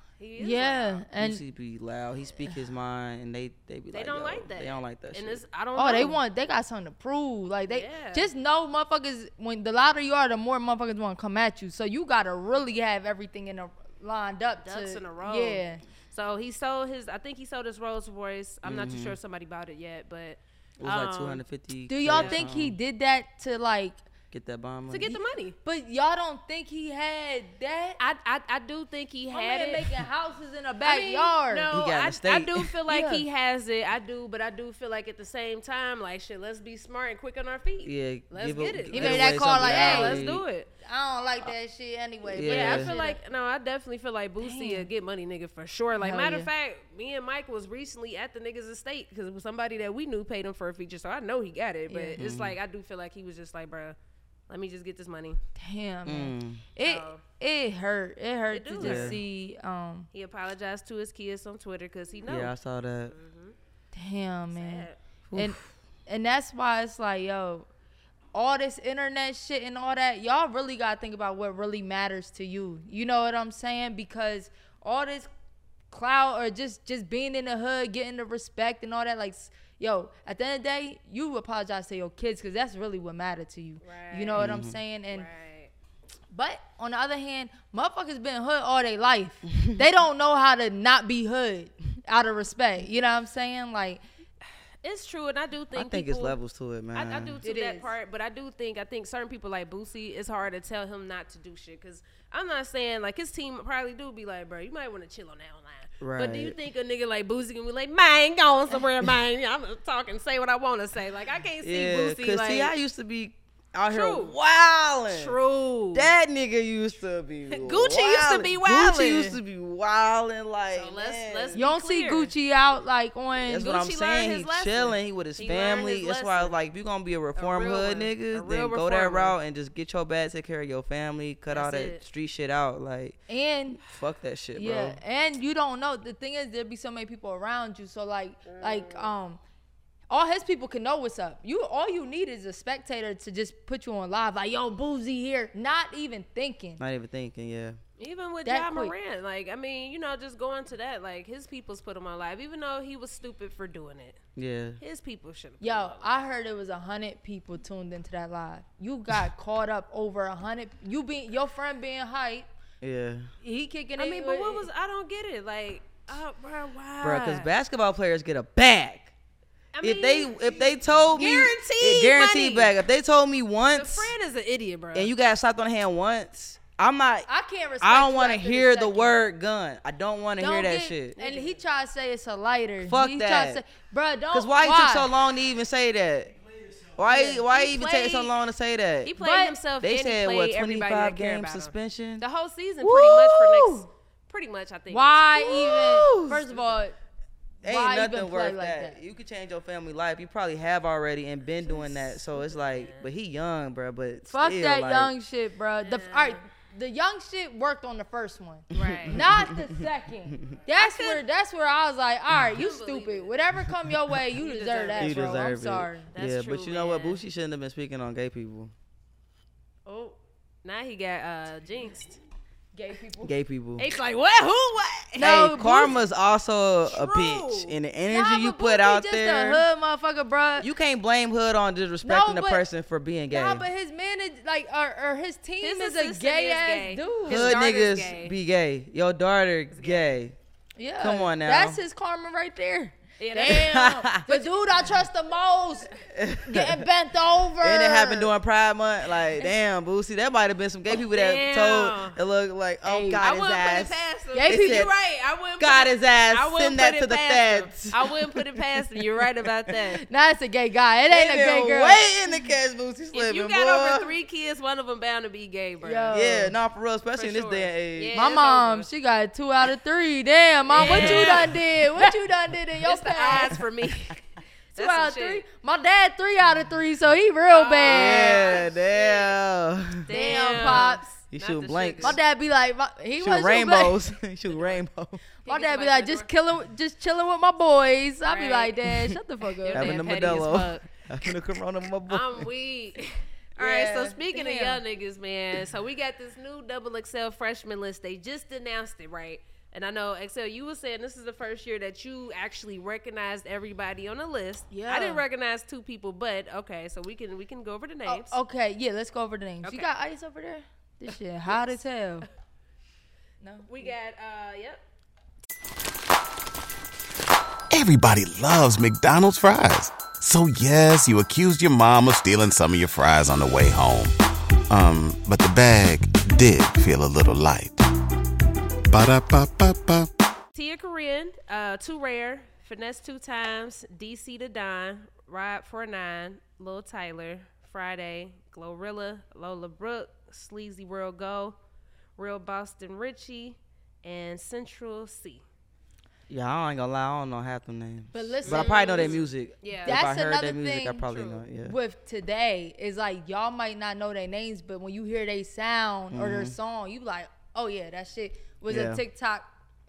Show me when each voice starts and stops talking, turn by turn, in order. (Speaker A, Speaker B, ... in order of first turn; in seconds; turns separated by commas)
Speaker A: 0.2-1.0, Speaker B: 0.4-1.4, Speaker C: 1.2-5.4, Speaker A: 3.9-6.2, Speaker B: 5.8-15.8, Speaker A: 7.7-8.3, Speaker A: 14.6-21.4, Speaker C: 18.6-19.2, Speaker C: 20.8-22.8, Speaker B: 21.9-24.1, Speaker A: 22.1-22.4, Speaker C: 24.3-25.1, Speaker A: 24.9-25.6, Speaker B: 25.6-28.0, Speaker A: 28.0-29.9, Speaker B: 29.3-31.7, Speaker A: 30.8-40.7, Speaker C: 31.7-32.7, Speaker B: 32.9-33.2, Speaker C: 37.8-40.4, Speaker B: 38.9-40.2, Speaker B: 40.8-43.2, Speaker C: 42.3-42.9, Speaker A: 42.5-54.0, Speaker B: 44.4-44.9, Speaker B: 45.9-46.5, Speaker B: 51.9-52.2, Speaker C: 52.2-52.6, Speaker A: 54.5-55.4, Speaker B: 55.6-60.1, Speaker C: 56.1-56.7, Speaker A: 56.8-57.2, Speaker A: 58.5-59.2, Speaker C: 58.8-59.2, Speaker A: 60.1-62.5, Speaker C: 62.3-63.1, Speaker A: 63.1-63.5, Speaker B: 63.9-67.7, Speaker A: 64.5-65.0, Speaker C: 65.3-65.6, Speaker B: 68.3-75.3, Speaker B: 75.9-85.3, Speaker A: 83.8-84.5, Speaker C: 84.4-84.8, Speaker A: 85.1-85.7, Speaker B: 86.3-94.0, Speaker C: 89.5-89.8, Speaker A: 94.8-96.4, Speaker C: 95.7-97.4, Speaker A: 97.0-112.7, Speaker B: 97.4-97.9, Speaker C: 106.0-106.6, Speaker C: 111.6-115.4, Speaker A: 113.9-114.3, Speaker A: 115.1-116.1, Speaker C: 115.9-121.6, Speaker A: 117.5-119.4, Speaker A: 120.8-122.3, Speaker B: 121.5-123.7, Speaker C: 123.5-133.2, Speaker A: 123.5-126.6, Speaker A: 127.4-129.4, Speaker A: 131.5-132.0, Speaker B: 133.3-133.8, Speaker C: 133.9-135.0, Speaker B: 134.6-139.4, Speaker A: 138.5-139.1, Speaker B: 140.1-146.8, Speaker C: 146.8-147.8, Speaker A: 148.0-154.2, Speaker B: 148.4-148.9, Speaker C: 154.4-154.8, Speaker A: 154.8-156.1, Speaker B: 155.6-162.5, Speaker C: 162.8-163.3, Speaker B: 163.4-164.7, Speaker A: 164.0-167.5, Speaker C: 167.0-169.1, Speaker A: 169.7-172.7, Speaker C: 169.8-174.1, Speaker A: 173.7-175.1, Speaker C: 174.9-177.3, Speaker B: 177.3-179.2, Speaker C: 177.8-181.2, Speaker B: 180.4-185.1, Speaker A: 181.2-181.6, Speaker C: 182.8-183.6, Speaker C: 184.3-186.3, Speaker C: 187.0-189.2, Speaker A: 187.1-188.3, Speaker A: 189.0-195.4, Speaker B: 189.2-189.6, Speaker C: 189.8-192.2, Speaker C: 192.8-193.9, Speaker B: 194.9-197.0, Speaker C: 195.4-196.5, Speaker B: 197.6-199.0, Speaker C: 197.6-205.1, Speaker A: 202.1-203.1, Speaker B: 204.3-216.1, Speaker A: 205.8-206.4, Speaker A: 208.7-209.2, Speaker C: 208.7-209.9, Speaker A: 210.8-211.2, Speaker A: 212.5-213.3, Speaker A: 214.4-215.2, Speaker C: 215.0-218.7, Speaker A: 216.1-217.2, Speaker A: 219.9-222.2, Speaker B: 222.7-223.3, Speaker C: 223.2-223.8, Speaker A: 223.8-225.8, Speaker B: 225.2-226.0, Speaker C: 225.2-229.7, Speaker A: 226.9-227.8, Speaker B: 228.1-230.7, Speaker C: 230.6-233.7, Speaker B: 232.0-232.6, Speaker B: 233.3-237.6, Speaker A: 235.6-238.3, Speaker C: 237.3-240.4, Speaker A: 239.7-240.1, Speaker B: 240.8-248.3, Speaker C: 241.0-241.8, Speaker A: 243.2-244.4, Speaker C: 243.5-244.3, Speaker C: 246.2-246.8, Speaker C: 247.6-254.9, Speaker A: 251.1-252.2, Speaker B: 252.8-253.3, Speaker A: 253.2-260.0, Speaker B: 254.3-254.9, Speaker C: 255.6-258.4, Speaker B: 260.1-262.1, Speaker C: 261.1-264.1, Speaker A: 263.1-266.1, Speaker B: 265.8-266.6, Speaker C: 266.1-268.2, Speaker A: 267.2-268.9, Speaker B: 268.1-273.6, Speaker A: 270.7-272.1, Speaker C: 270.8-271.5, Speaker A: 272.8-274.2, Speaker A: 274.8-275.4, Speaker B: 274.8-278.6, Speaker A: 277.5-279.4, Speaker C: 277.9-280.1, Speaker A: 280.1-282.2, Speaker B: 280.1-281.1, Speaker C: 280.6-282.2, Speaker B: 282.0-284.1, Speaker C: 283.2-285.2, Speaker B: 285.4-290.2, Speaker A: 285.5-286.3, Speaker A: 288.3-288.8, Speaker A: 289.6-290.9, Speaker C: 289.7-292.5, Speaker A: 292.1-308.4, Speaker B: 293.6-294.8, Speaker B: 304.7-305.2, Speaker B: 308.1-312.3, Speaker A: 309.6-309.9, Speaker B: 313.4-313.9, Speaker A: 313.7-314.8, Speaker D: 317.7-324.1, Speaker D: 324.7-327.8, Speaker D: 328.9-330.1, Speaker A: 330.5-341.6, Speaker A: 342.2-345.4, Speaker C: 346.3-351.8, Speaker B: 348.1-349.2, Speaker A: 348.4-350.0, Speaker B: 349.8-351.1, Speaker A: 351.1-351.4, Speaker B: 351.6-359.5, Speaker C: 356.1-356.5, Speaker C: 358.7-359.0